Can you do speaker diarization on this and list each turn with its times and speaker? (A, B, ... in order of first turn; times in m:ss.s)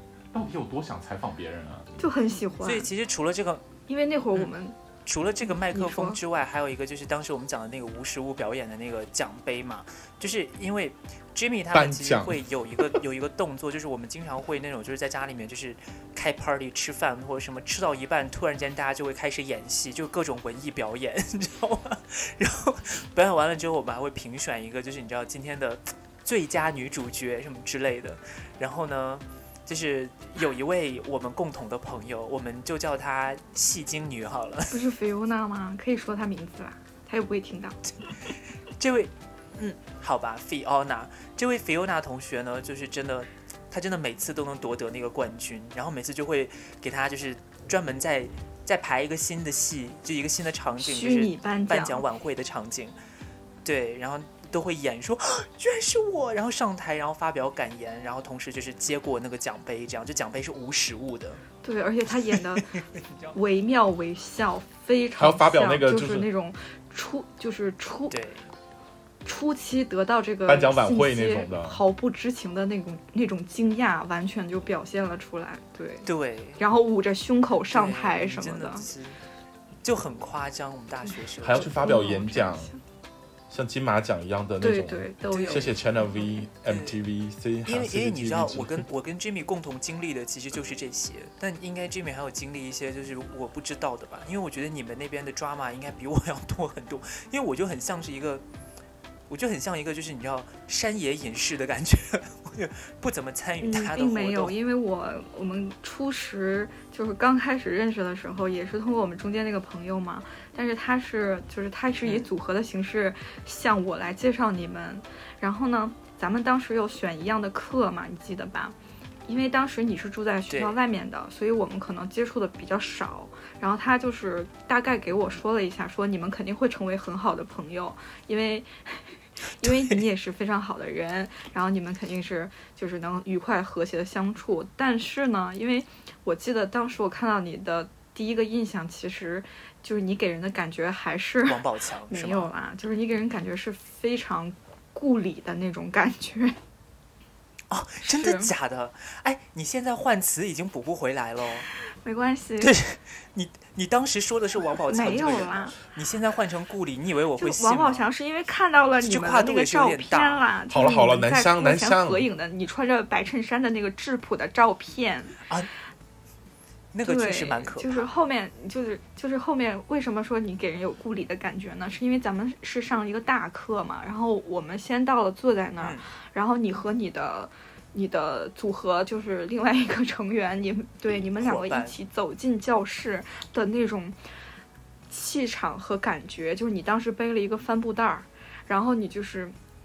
0:00.3-0:02.0 A
0:02.0-0:02.9 B
0:02.6-0:03.7 C
0:03.9-0:04.8 B
0:05.1-0:34.8 C
0:05.4-0:06.2 B
0:11.7-0:12.4 A
0:34.7-0:37.8 B
0:38.2-0:53.0 C
0:50.8-0:52.0 B
0:53.6-1:01.4 C
1:01.6-1:02.7 B
1:02.7-1:03.4 C
1:03.3-1:08.2 B
1:05.2-1:06.3 A
1:08.1-1:08.5 C
1:09.2-1:18.9 B
1:10.5-1:11.8 A
1:16.0-1:16.6 C
1:17.7-1:19.2 C
1:19.8-1:21.8 C
1:21.4-1:22.7 A
1:21.5-1:22.8 B
1:23.5-1:28.9 A
1:24.6-1:26.3 B
1:25.3-1:25.8 C
1:26.6-1:27.0 C
1:27.7-1:38.4 C
1:39.3-1:44.6 C
1:43.6-1:58.8 B
1:59.3-2:09.0 B
2:00.5-2:00.8 C
2:09.6-2:26.6 B
2:09.6-2:10.0 C
2:21.5-2:22.5 C
2:27.7-2:31.7 C
2:28.0-2:28.5 B
2:31.8-2:32.8 B
2:32.6-2:38.1 C
2:34.9-2:35.8 B
2:37.4-2:45.4 B
2:39.0-2:40.4 C
2:40.7-2:42.3 A
2:46.9-2:48.1 C
2:47.0-3:04.2 B
2:55.8-2:56.0 C
3:01.4-3:02.0 C
3:05.1-3:09.6 B